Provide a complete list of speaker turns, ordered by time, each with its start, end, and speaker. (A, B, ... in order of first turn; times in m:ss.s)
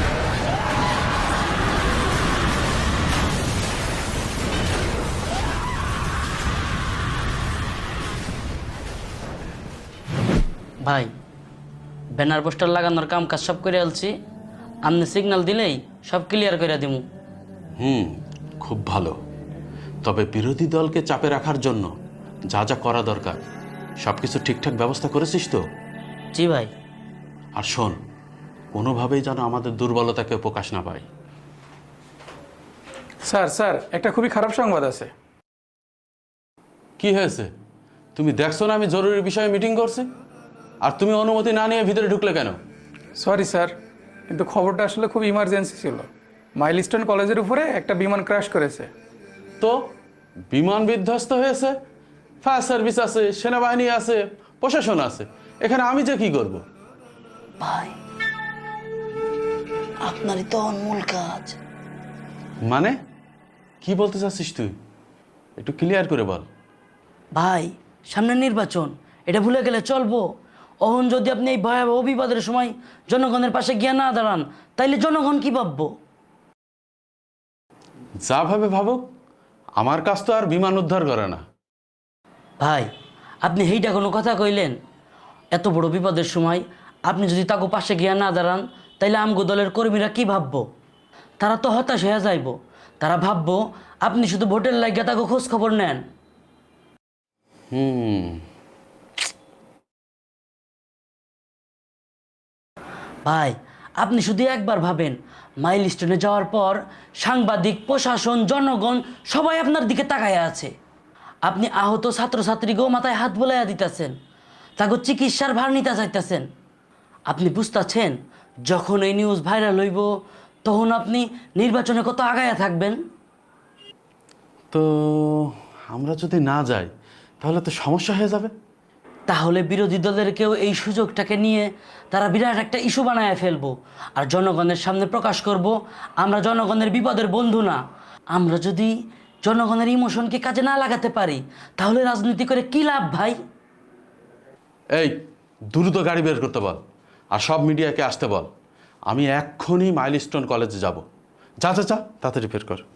0:12.2-0:14.1 A
0:14.8-0:17.0 A
0:17.8-0:19.1 B
0:20.0-0:21.9 B
0:22.5-0:23.4 B
0:24.0-0:25.6 B
0:26.3-0:26.7 A
0:27.6-0:28.0 B
0:28.8-0:31.0 B
0:33.3-0:35.1 C
0:37.0-0:37.5 B
0:38.2-0:40.1 B
0:40.8-0:42.6 B
0:43.2-0:43.7 C
0:44.3-0:48.9 C
0:50.5-0:51.8 B
0:52.4-0:56.6 B
0:57.6-0:57.9 A
1:00.0-1:01.6 A
1:03.8-1:04.7 B
1:05.6-1:06.4 B
1:07.3-1:10.2 A
1:10.8-1:15.9 A
1:18.2-1:19.0 B
1:19.8-1:21.4 B
1:22.6-1:22.9 A
1:23.4-1:24.7 A
1:25.5-1:30.6 A
1:31.4-1:36.0 A
1:37.7-1:38.4 B
1:43.2-1:50.7 A
1:51.5-1:54.1 A
1:54.8-1:56.4 A
1:57.3-1:58.1 A
1:58.7-2:00.1 A
2:00.6-2:03.0 A
2:04.7-2:06.9 B
2:07.4-2:08.5 B
2:09.3-2:17.8 A
2:18.3-2:18.9 A
2:19.4-2:23.4 A
2:25.7-2:26.8 B
2:27.3-2:28.5 B
2:29.1-2:31.0 B
2:31.6-2:32.8 B